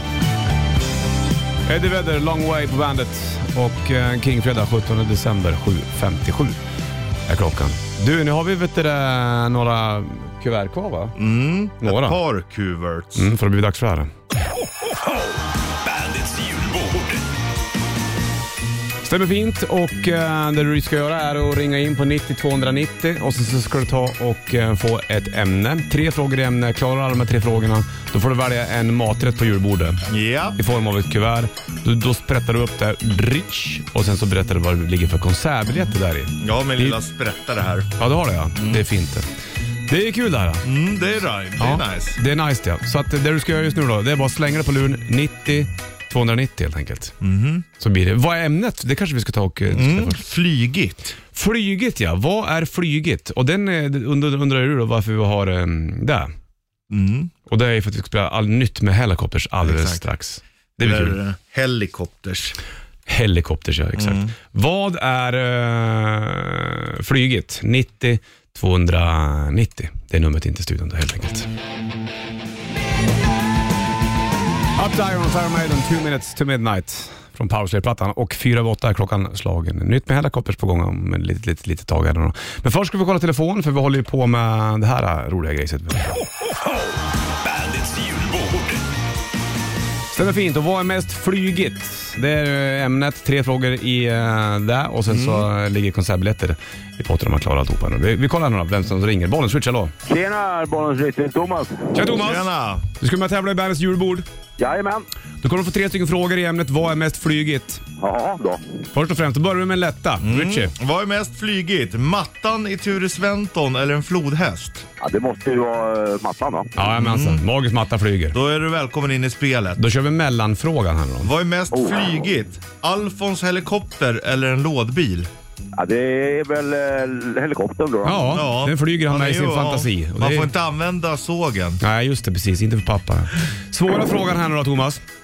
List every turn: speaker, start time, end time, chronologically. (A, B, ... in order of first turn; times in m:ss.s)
0:01.7-0:06.6 A
0:07.3-0:11.2 A
0:11.2-0:13.3 B
0:11.8-0:12.2 A
0:13.2-0:14.1 A
0:15.8-0:17.2 C
0:19.0-0:30.0 A
0:30.1-0:30.6 B
0:30.6-0:37.0 A
0:36.4-0:37.9 B
0:38.0-0:39.3 A
0:38.6-0:38.8 B
0:39.9-0:40.6 A
0:40.6-0:42.2 B
0:41.6-0:47.2 A
0:47.2-0:47.6 B
0:47.8-0:50.2 A
0:49.7-0:51.2 B
0:51.3-0:56.3 A
0:56.9-0:57.3 B
0:57.5-1:01.2 A
0:59.6-1:00.1 B
1:00.8-1:02.6 B
1:03.1-1:11.5 A
1:04.0-1:04.3 B
1:14.8-1:26.2 A
1:27.4-1:28.8 C
1:30.1-1:39.9 A
1:35.1-1:35.5 B
1:40.1-1:41.9 D
1:41.9-1:44.3 A
1:42.1-1:42.8 B
1:44.6-1:45.1 D
1:45.4-1:47.8 A
1:48.0-1:48.6 D
1:48.9-1:50.7 A
1:50.2-1:54.8 B
1:55.0-1:56.7 D
1:56.8-1:58.4 A
1:56.8-1:57.4 B
1:58.3-1:59.8 B
1:59.8-2:01.3 A
2:01.2-2:05.3 B
2:01.7-2:02.2 D
2:05.8-2:08.3 D
2:08.0-2:10.5 A
2:08.3-2:11.8 B
2:11.8-2:15.0 A